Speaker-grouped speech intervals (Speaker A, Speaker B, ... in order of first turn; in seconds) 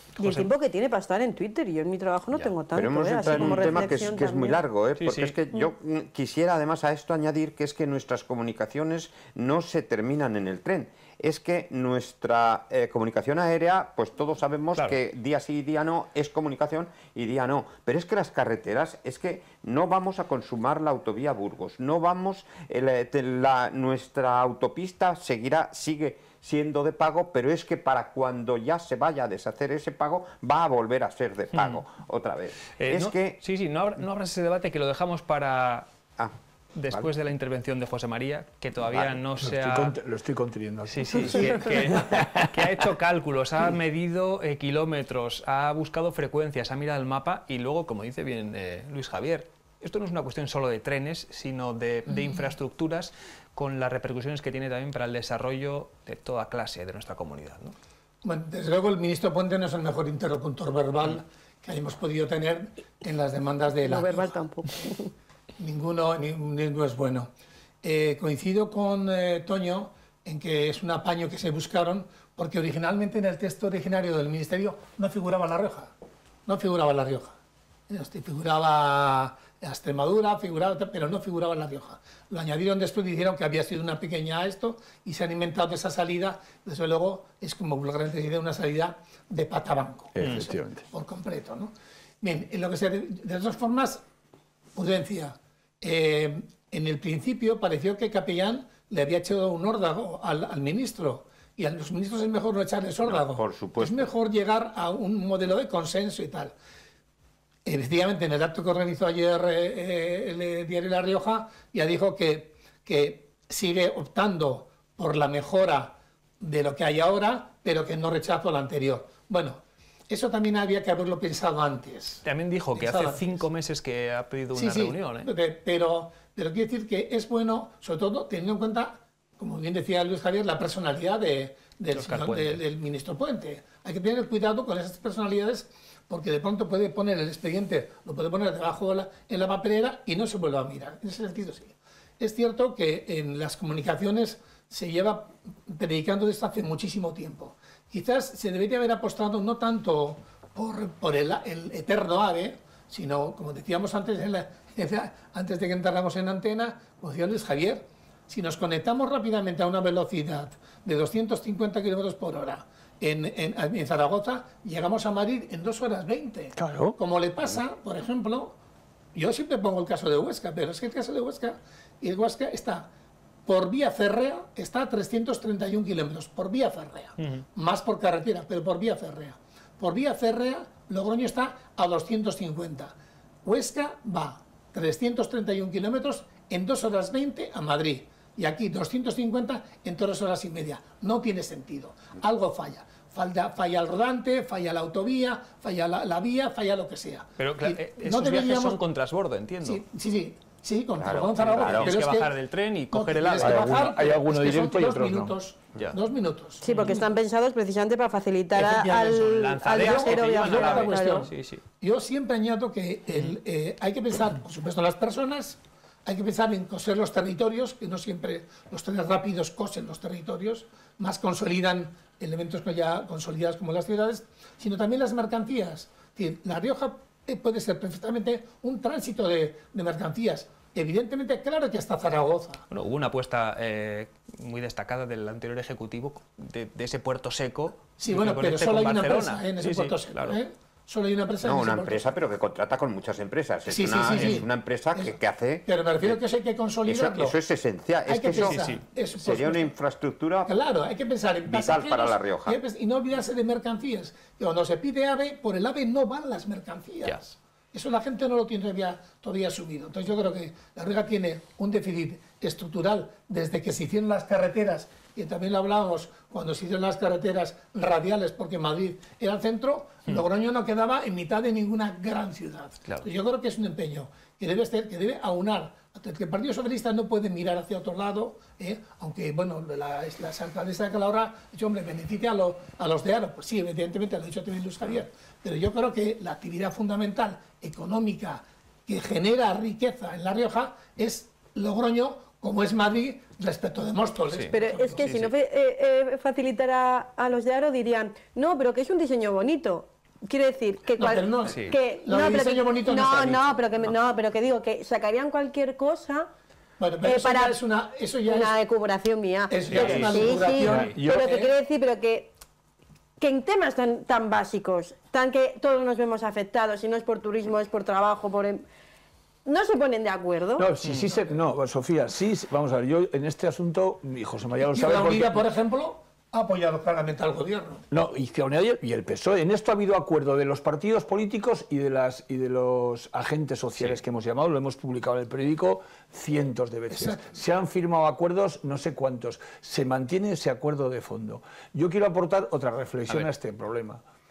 Speaker A: 0.2-4.6, 63.8-65.1, 206.6-211.3, 294.5-306.3, 307.0-307.6, 308.3-312.3, 313.2-318.6, 319.4-320.7
Speaker B: 0.2-0.5, 3.2-3.9, 5.0-5.4, 31.5-31.8, 32.8-35.9, 36.8-40.0, 40.9-57.8, 90.2-90.5, 122.2-125.3, 131.9-132.6, 197.4-199.8, 201.3-204.1, 206.7-207.0, 209.2-211.6, 232.7-240.4, 244.0-244.4, 248.3-248.8, 294.3-295.3, 301.5-301.8, 309.7-310.9, 320.8-321.1
Speaker C: 2.7-33.4, 38.9-39.2, 103.0-104.1, 201.0-201.9, 241.4-246.2, 246.8-250.5, 251.5-252.6
Speaker D: 39.4-42.8, 90.2-90.8, 166.6-167.0, 203.4-205.4, 310.6-311.3, 320.6-325.4, 327.9-344.0
Speaker E: 52.1-52.4, 58.2-64.4, 65.6-67.3, 67.8-75.9, 76.5-77.3, 77.9-94.0, 94.8-106.5, 107.7-122.2, 122.8-123.4, 124.5-168.6, 169.1-172.9, 173.5-198.8, 199.6-202.3, 202.9-207.0, 208.5-232.6, 238.0-242.2, 243.7-247.4, 248.1-249.8, 250.5-295.2, 300.9-303.5, 306.8-308.6, 309.5-311.5, 324.7-327.8, 336.9-337.2